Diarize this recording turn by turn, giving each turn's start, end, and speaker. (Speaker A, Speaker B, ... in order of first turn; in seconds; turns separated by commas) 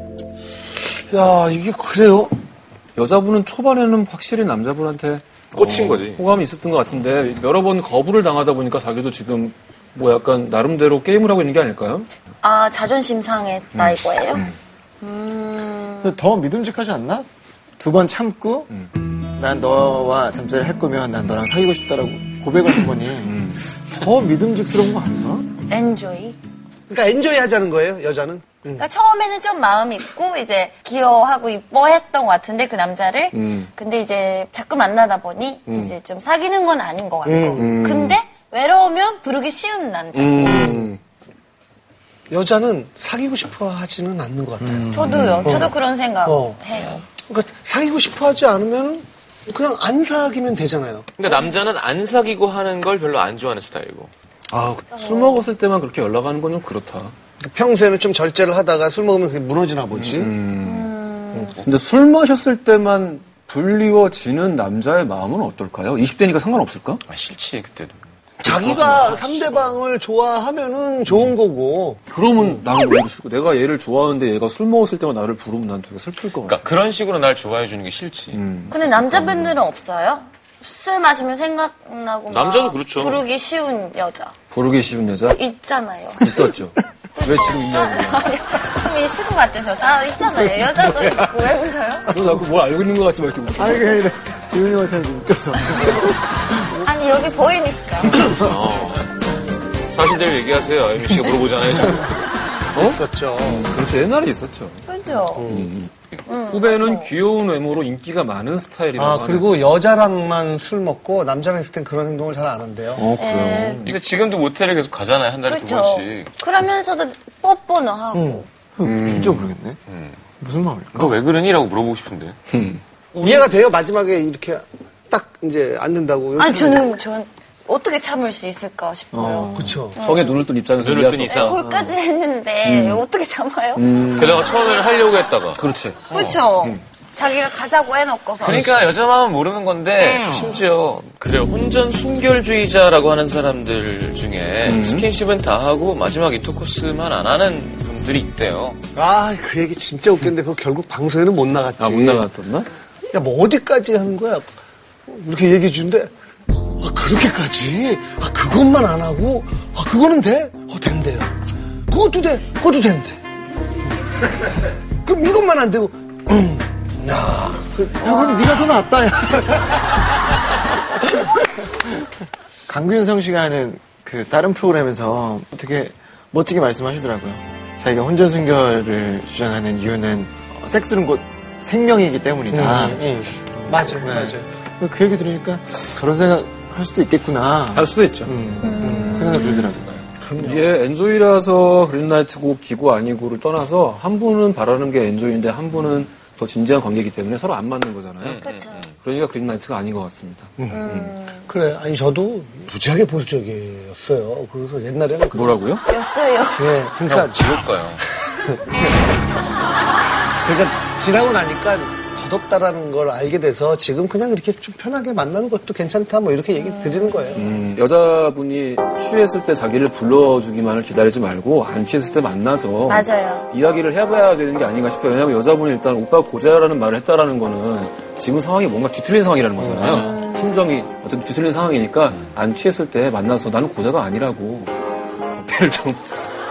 Speaker A: 0.9-2.3, Speaker B: 3.0-12.1, Speaker C: 5.5-6.2, Speaker D: 12.4-14.5, Speaker B: 13.8-14.6, Speaker D: 15.0-16.2, Speaker E: 16.0-17.3, Speaker E: 17.8-18.7, Speaker E: 19.4-25.5, Speaker B: 23.2-23.6, Speaker D: 25.7-26.4, Speaker A: 26.9-28.9, Speaker D: 28.8-40.9, Speaker B: 33.3-33.7, Speaker B: 35.7-36.0, Speaker A: 37.2-37.7, Speaker B: 37.6-38.2, Speaker B: 40.1-41.0, Speaker A: 42.3-45.7, Speaker D: 44.9-47.0, Speaker B: 45.0-45.7, Speaker A: 46.2-46.6, Speaker C: 46.7-47.0, Speaker A: 47.3-51.5, Speaker C: 51.2-54.1, Speaker B: 54.5-57.1, Speaker D: 55.0-55.4, Speaker A: 57.4-60.3, Speaker B: 59.9-67.0, Speaker D: 60.6-61.6, Speaker C: 67.1-69.6, Speaker A: 68.4-72.0, Speaker B: 72.1-76.6, Speaker C: 76.4-78.4, Speaker B: 78.3-79.6, Speaker D: 78.7-84.3, Speaker C: 82.3-83.3, Speaker B: 84.5-85.4, Speaker D: 85.3-86.4, Speaker B: 86.2-88.3, Speaker D: 87.2-92.2, Speaker B: 90.4-91.6, Speaker B: 92.1-94.0, Speaker E: 93.5-96.8, Speaker D: 96.8-98.3, Speaker C: 98.3-99.1, Speaker C: 100.0-102.2, Speaker B: 102.7-104.9, Speaker A: 102.8-103.7, Speaker D: 104.9-105.5, Speaker A: 105.3-105.7, Speaker B: 105.5-105.9, Speaker D: 106.3-107.1, Speaker B: 106.5-109.5, Speaker A: 109.0-113.2, Speaker B: 113.0-113.9, Speaker D: 113.2-113.8, Speaker C: 113.8-116.3, Speaker D: 115.5-118.5, Speaker E: 118.1-119.8, Speaker B: 118.8-119.5, Speaker C: 119.9-120.2, Speaker E: 120.4-121.2, Speaker C: 120.9-122.4, Speaker B: 122.5-122.8, Speaker C: 123.1-123.6, Speaker A: 123.2-126.9, Speaker D: 126.4-130.4, Speaker E: 129.1-129.8, Speaker A: 129.5-130.0, Speaker B: 130.0-131.9, Speaker C: 130.7-131.7, Speaker D: 131.3-134.0, Speaker B: 132.6-133.1, Speaker B: 133.8-134.6, Speaker C: 134.0-136.4, Speaker D: 134.6-135.3, Speaker B: 135.6-136.8, Speaker D: 136.1-138.6, Speaker C: 138.4-148.8, Speaker B: 138.5-138.8, Speaker B: 144.6-145.1, Speaker A: 148.9-152.3, Speaker B: 151.8-152.7, Speaker A: 153.1-154.5, Speaker A: 155.1-156.1, Speaker A: 156.8-161.3, Speaker A: 161.9-163.2, Speaker A: 165.1-168.6, Speaker E: 168.0-169.9, Speaker E: 170.9-172.1, Speaker E: 172.7-183.1, Speaker A: 182.5-184.5, Speaker E: 183.6-189.9, Speaker B: 187.7-188.3, Speaker D: 188.6-189.7, Speaker C: 189.6-190.0, Speaker A: 190.2-190.7, Speaker B: 190.4-198.4, Speaker C: 198.2-198.9, Speaker D: 198.4-198.8, Speaker B: 199.0-201.2, Speaker A: 200.6-200.9, Speaker D: 200.7-201.5, Speaker A: 201.5-205.7, Speaker B: 205.3-205.8, Speaker D: 205.9-206.8, Speaker A: 206.6-207.4, Speaker C: 207.0-208.0, Speaker A: 208.0-208.4, Speaker A: 210.4-217.5, Speaker D: 216.6-217.3, Speaker B: 217.3-234.7, Speaker D: 222.9-223.5, Speaker C: 229.7-230.1, Speaker D: 230.0-230.5, Speaker B: 235.4-236.0